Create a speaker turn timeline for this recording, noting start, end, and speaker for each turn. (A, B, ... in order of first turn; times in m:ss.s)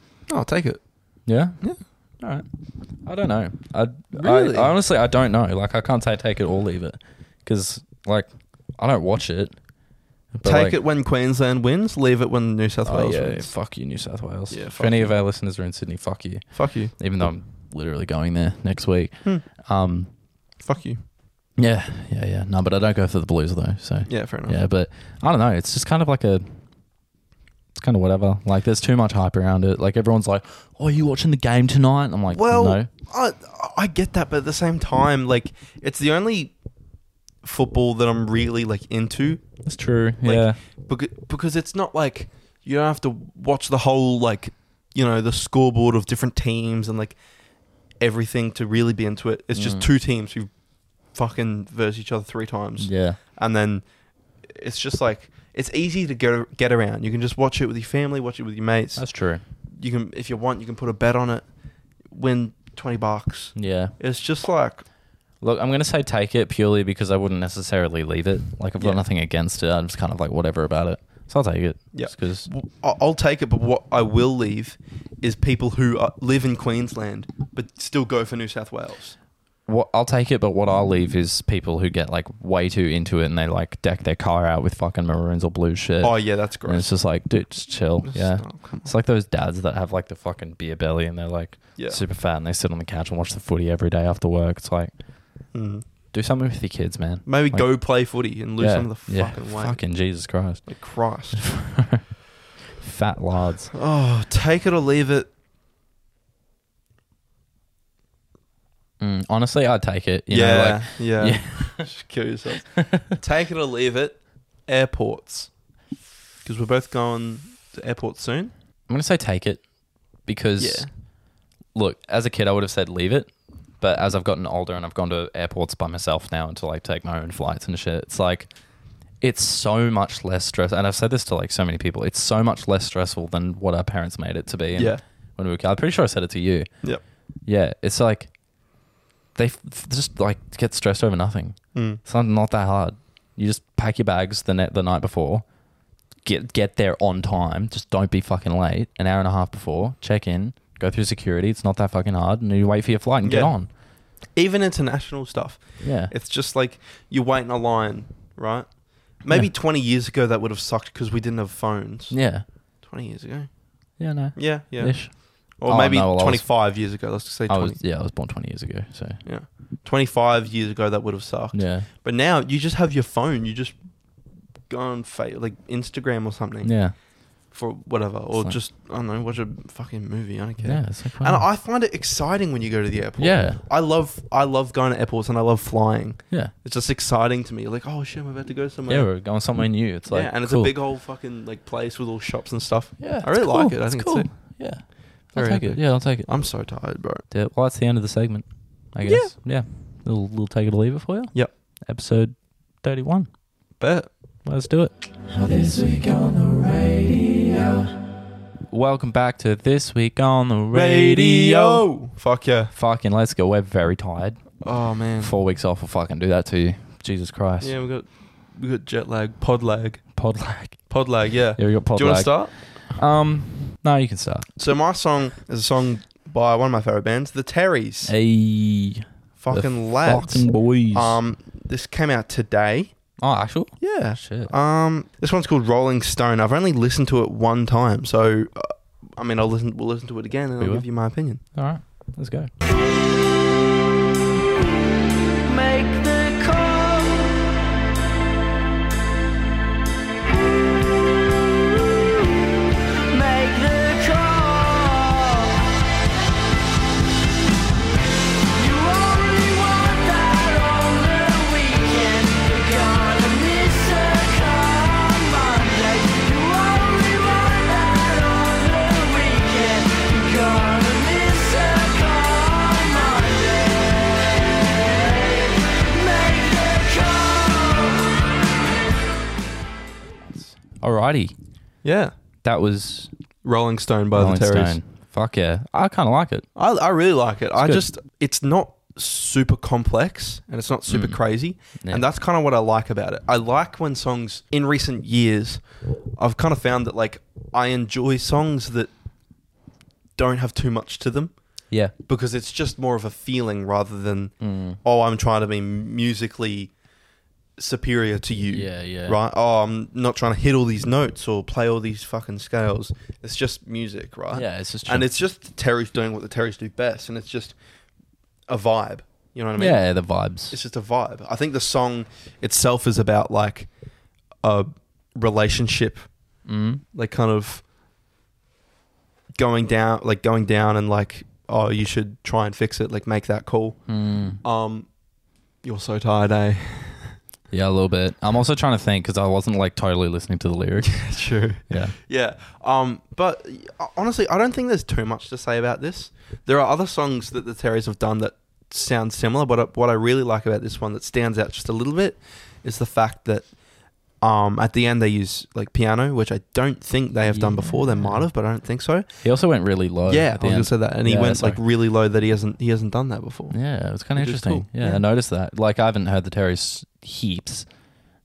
0:00.3-0:01.8 A
0:01.2-0:10.8 B
0:04.1-0:04.7 A
0:10.4-0:13.6 A
0:12.8-0:20.1 B
0:14.5-0:15.2 A
0:16.5-0:16.9 A
0:20.6-0:21.0 A
0:21.6-0:26.9 B
0:24.0-0:24.6 A
0:27.7-0:32.9 B
0:32.3-0:36.6 A
0:37.4-0:39.7 A
0:39.6-0:40.6 B
0:40.2-0:47.2 A
0:47.8-1:01.5 A
0:49.5-0:49.9 B
0:52.8-0:53.2 B
0:59.0-0:59.4 B
1:02.0-1:04.9 A
1:03.6-1:04.0 B
1:05.4-1:12.5 B
1:08.8-1:09.0 A
1:11.9-1:19.2 A
1:19.7-1:35.5 B
1:26.0-1:27.0 A
1:28.0-1:28.9 A
1:31.8-1:32.0 A
1:35.5-1:35.8 A
1:36.1-1:42.1 B
1:37.3-1:40.0 A
1:40.6-1:41.9 A
1:42.8-1:43.7 B
1:43.7-1:45.3 A
1:49.0-1:51.9 B
1:50.3-1:55.6 A
1:56.4-1:58.5 A
1:58.9-2:18.7 B
2:00.6-2:00.9 A
2:14.7-2:15.0 A
2:19.3-2:33.7 B
2:21.7-2:22.0 A
2:33.2-2:47.8 A
2:35.8-2:36.1 B
2:42.1-2:42.4 B
2:44.0-2:46.8 B
2:47.5-2:49.2 B
2:49.2-2:53.8 A
2:51.5-2:51.9 B
2:54.7-3:09.3 A
2:56.6-2:57.0 B
2:58.3-2:58.6 B
3:00.6-3:01.4 B
3:03.2-3:03.6 B
3:08.9-3:10.7 B
3:10.1-3:17.2 A
3:13.0-3:16.3 B
3:17.3-3:23.4 B
3:19.0-3:19.3 A
3:23.8-3:24.1 A
3:24.4-3:27.9 B
3:28.7-3:31.8 B
3:30.7-3:32.7 A
3:32.7-3:34.6 B
3:34.6-3:35.3 A
3:35.2-3:37.7 B
3:37.6-3:40.2 A
3:40.1-3:40.9 B
3:40.7-3:42.6 A
3:41.6-3:44.5 B
3:44.6-3:48.1 A
3:48.0-3:51.2 B
3:49.4-3:53.0 A
3:53.2-3:54.5 B
3:53.8-4:01.4 A
4:00.6-4:00.9 B
4:01.4-4:02.5 B
4:05.4-4:07.4 C
4:12.0-4:12.6 C
4:13.1-4:15.6 C
4:18.6-4:38.1 C
4:40.2-4:41.4 B
4:41.8-4:42.1 A
4:42.4-4:43.1 B
4:43.4-4:44.8 A
4:44.2-4:46.5 B
4:46.6-4:55.6 A
4:50.9-4:51.2 B
4:51.8-4:52.0 B
4:56.2-4:58.9 A
5:00.2-5:01.4 A
5:01.9-5:06.7 A
5:04.4-5:04.8 B
5:07.6-5:17.6 A
5:08.5-5:09.2 B
5:14.3-5:15.1 B
5:18.5-5:23.7 A
5:19.6-5:20.6 B
5:24.4-5:26.1 A
5:26.4-5:26.8 B
5:26.9-5:27.6 A
5:29.3-5:34.9 A
5:33.9-5:34.4 B
5:35.6-5:37.2 A
5:37.5-5:41.1 B
5:40.9-5:53.5 A
5:41.6-5:42.0 B
5:54.2-5:59.3 A
5:57.3-5:58.3 B
5:59.2-6:01.6 B
6:00.0-6:05.0 A
6:03.5-6:07.9 B